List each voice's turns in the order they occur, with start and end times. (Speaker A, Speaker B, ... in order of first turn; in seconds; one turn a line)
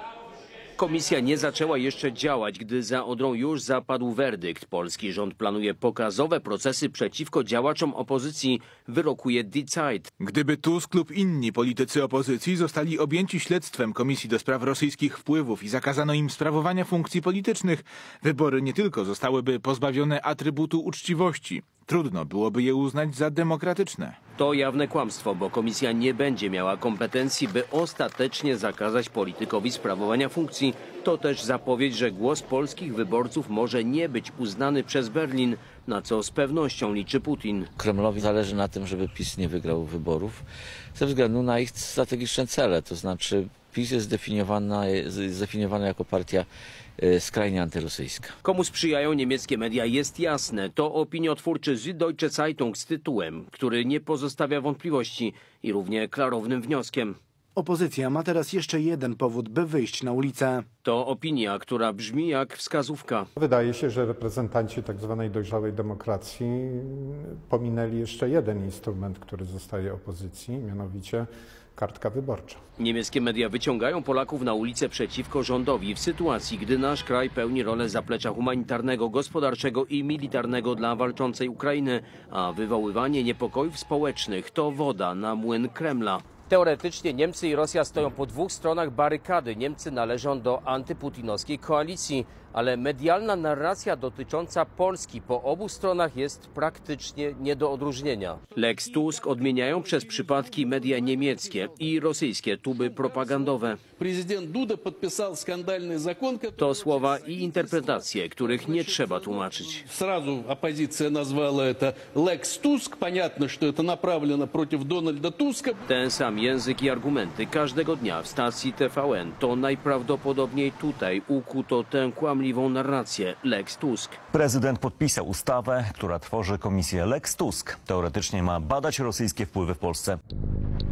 Speaker A: 0.8-10.1
Speaker B: 10.2-24.2
Speaker A: 24.4-37.7
Speaker C: 37.8-40.4
Speaker C: 41.0-46.5
Speaker C: 47.0-48.4
Speaker A: 48.4-57.2
Speaker D: 57.6-60.6
Speaker A: 60.9-63.3
Speaker E: 63.4-72.6
Speaker A: 72.8-103.8
Speaker F: 104.0-106.6
Speaker A: 106.6-109.9
Speaker F: 108.6-115.8
Speaker A: 115.9-124.2
Speaker G: 124.3-130.2